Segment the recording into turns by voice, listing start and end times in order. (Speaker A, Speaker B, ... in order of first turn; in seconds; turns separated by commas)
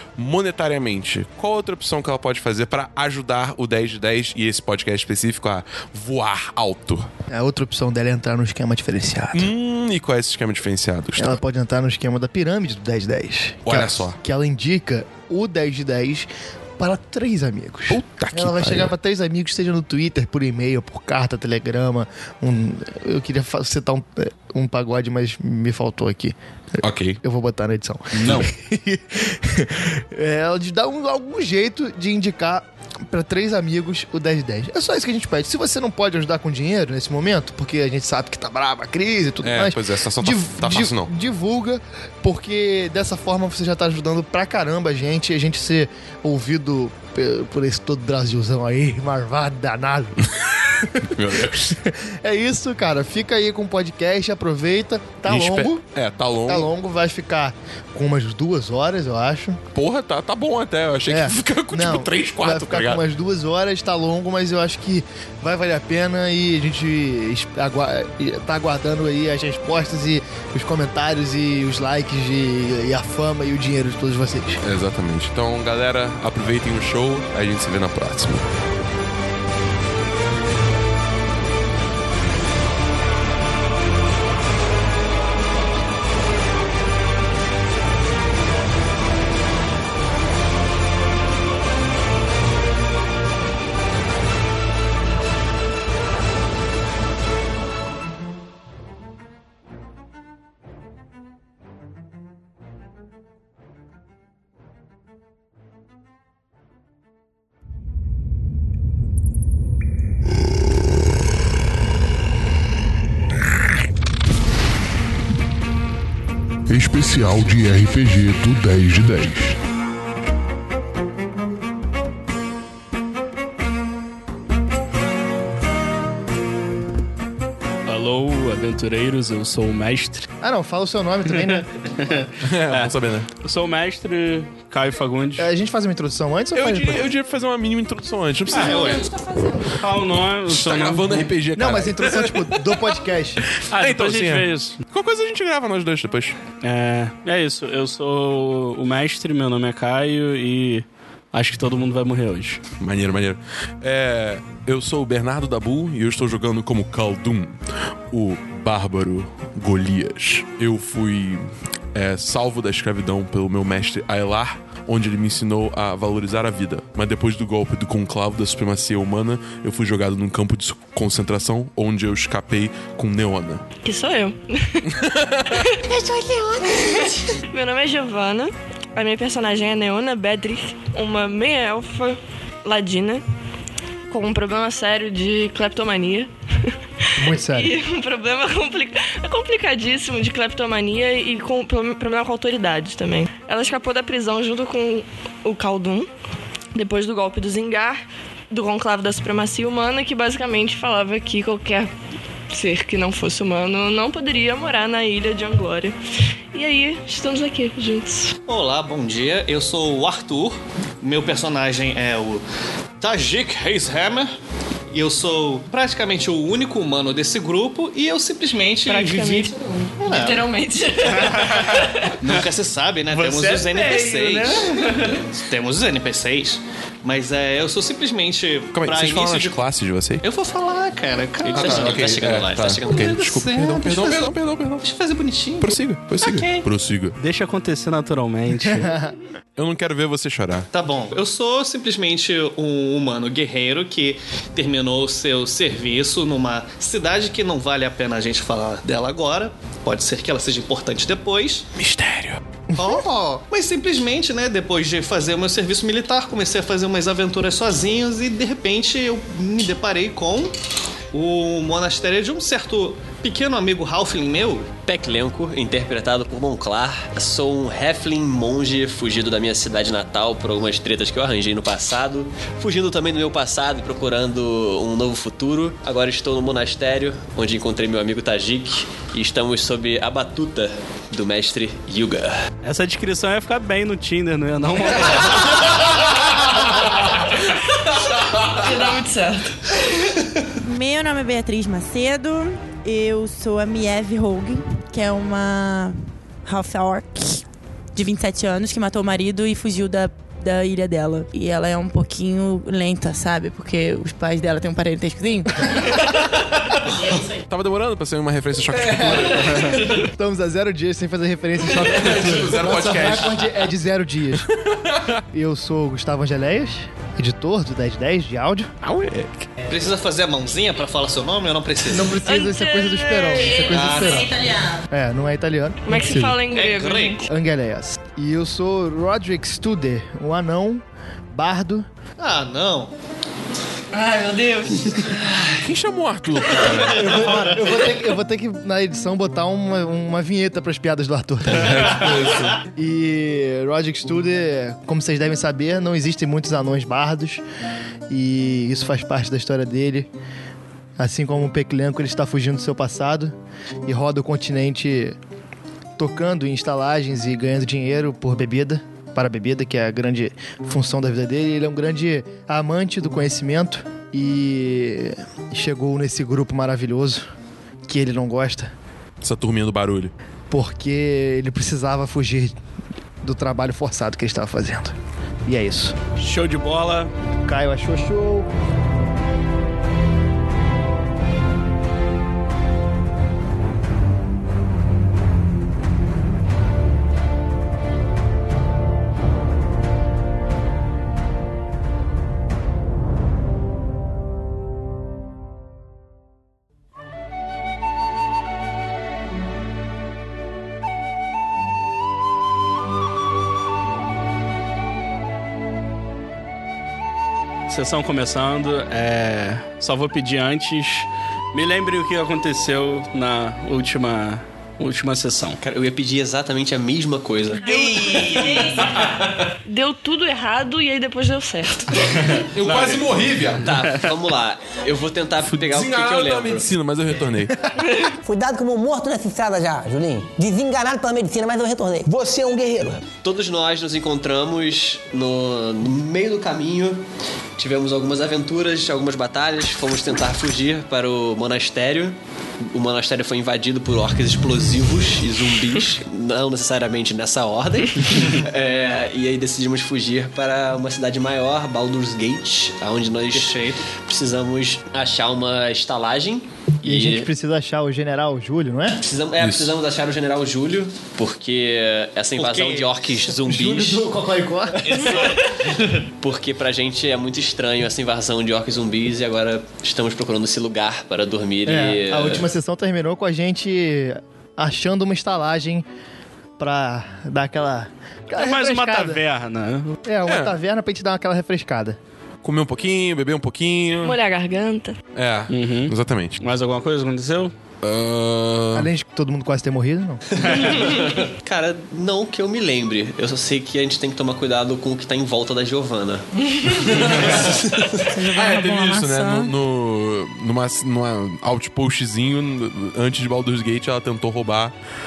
Speaker A: 0.2-7.1, Speaker B: 7.3-9.5, Speaker A: 9.3-11.4, Speaker B: 11.2-16.3, Speaker A: 13.7-14.2, Speaker B: 16.8-26.4, Speaker A: 17.9-18.9, Speaker A: 26.8-27.2, Speaker B: 27.2-55.8, Speaker A: 28.1-28.5, Speaker A: 39.4-41.1, Speaker A: 51.0-51.8, Speaker A: 55.2-56.7, Speaker B: 56.5-59.6, Speaker A: 59.7-63.0, Speaker B: 61.1-74.6, Speaker A: 74.6-78.5, Speaker C: 116.7-119.6, Speaker D: 127.9-130.3, Speaker B: 130.4-132.3, Speaker D: 132.1-135.5, Speaker A: 132.4-133.3, Speaker B: 135.4-137.0, Speaker A: 136.6-139.0, Speaker D: 138.5-138.9, Speaker E: 138.7-139.5, Speaker F: 138.7-139.1, Speaker D: 139.8-141.3, Speaker A: 140.5-146.4, Speaker B: 141.6-143.4, Speaker D: 143.7-144.8, Speaker D: 146.6-152.6, Speaker A: 152.8-173.6, Speaker E: 173.8-174.9, Speaker A: 174.9-175.8, Speaker E: 175.6-183.2, Speaker E: 184.1-186.7, Speaker B: 187.2-187.7, Speaker E: 187.3-196.1, Speaker E: 196.8-201.9, Speaker E: 202.5-206.0, Speaker E: 206.5-208.3, Speaker F: 208.5-212.4, Speaker F: 213.0-214.3, Speaker F: 214.9-220.6, Speaker E: 218.9-222.1, Speaker F: 221.2-229.6, Speaker D: 223.1-225.2, Speaker A: 228.7-230.2, Speaker F: 230.2-236.7, Speaker G: 231.5-233.2, Speaker A: 231.5-234.8, Speaker A: 235.6-237.2, Speaker D: 237.2-239.0, Speaker B: 238.7-239.1, Speaker A: 239.6-240.7, Speaker F: 240.7-251.7, Speaker A: 251.8-252.4, Speaker F: 252.8-260.5, Speaker F: 261.1-264.7, Speaker G: 264.8-282.4, Speaker D: 282.6-285.7, Speaker A: 287.9-288.7, Speaker E: 288.4-289.6, Speaker H: 290.6-297.4, Speaker H: 297.9-306.0, Speaker A: 307.2-309.8, Speaker B: 309.9-314.5, Speaker A: 311.6-313.7, Speaker A: 314.3-315.2, Speaker B: 315.3-318.7, Speaker A: 318.8-319.5, Speaker F: 319.6-322.2, Speaker B: 321.9-324.3, Speaker E: 322.2-324.2, Speaker F: 323.7-324.5, Speaker H: 324.5-324.8, Speaker B: 324.9-326.4, Speaker E: 325.9-327.3, Speaker F: 326.5-327.2, Speaker B: 327.3-331.9, Speaker F: 332.2-332.9, Speaker F: 333.9-335.6, Speaker A: 335.6-337.3, Speaker F: 336.6-337.6, Speaker B: 336.9-347.4, Speaker A: 341.5-342.6, Speaker B: 348.1-350.1, Speaker B: 351.0-353.3, Speaker B: 353.9-355.2, Speaker B: 356.0-367.3, Speaker B: 367.9-368.7, Speaker A: 369.2-370.1, Speaker B: 370.5-372.6, Speaker B: 373.2-374.9, Speaker B: 375.5-376.0, Speaker D: 376.2-377.1, Speaker B: 377.5-378.5, Speaker D: 407.7-415.6, Speaker G: 415.6-419.0, Speaker A: 417.7-419.0, Speaker E: 417.8-418.6, Speaker E: 419.6-422.2, Speaker A: 422.3-423.7, Speaker F: 422.7-423.0, Speaker G: 423.6-426.7, Speaker A: 425.4-427.6, Speaker E: 427.8-428.2, Speaker I: 428.2-433.0, Speaker G: 433.2-437.0, Speaker G: 437.6-457.3, Speaker F: 453.3-453.9, Speaker B: 456.8-459.0, Speaker G: 459.0-464.1, Speaker A: 459.4-459.7, Speaker F: 462.4-462.9, Speaker B: 463.3-465.1, Speaker E: 465.0-465.4, Speaker G: 466.1-472.5, Speaker B: 471.7-475.9, Speaker B: 476.6-479.2, Speaker D: 478.3-480.0, Speaker B: 480.1-482.0, Speaker A: 480.2-480.5, Speaker A: 482.4-484.2, Speaker E: 484.0-485.0, Speaker A: 485.1-486.4, Speaker D: 485.5-487.5, Speaker A: 487.8-488.9, Speaker B: 488.7-490.2, Speaker G: 490.5-498.0, Speaker A: 497.2-497.4, Speaker H: 498.0-499.5, Speaker A: 498.3-504.7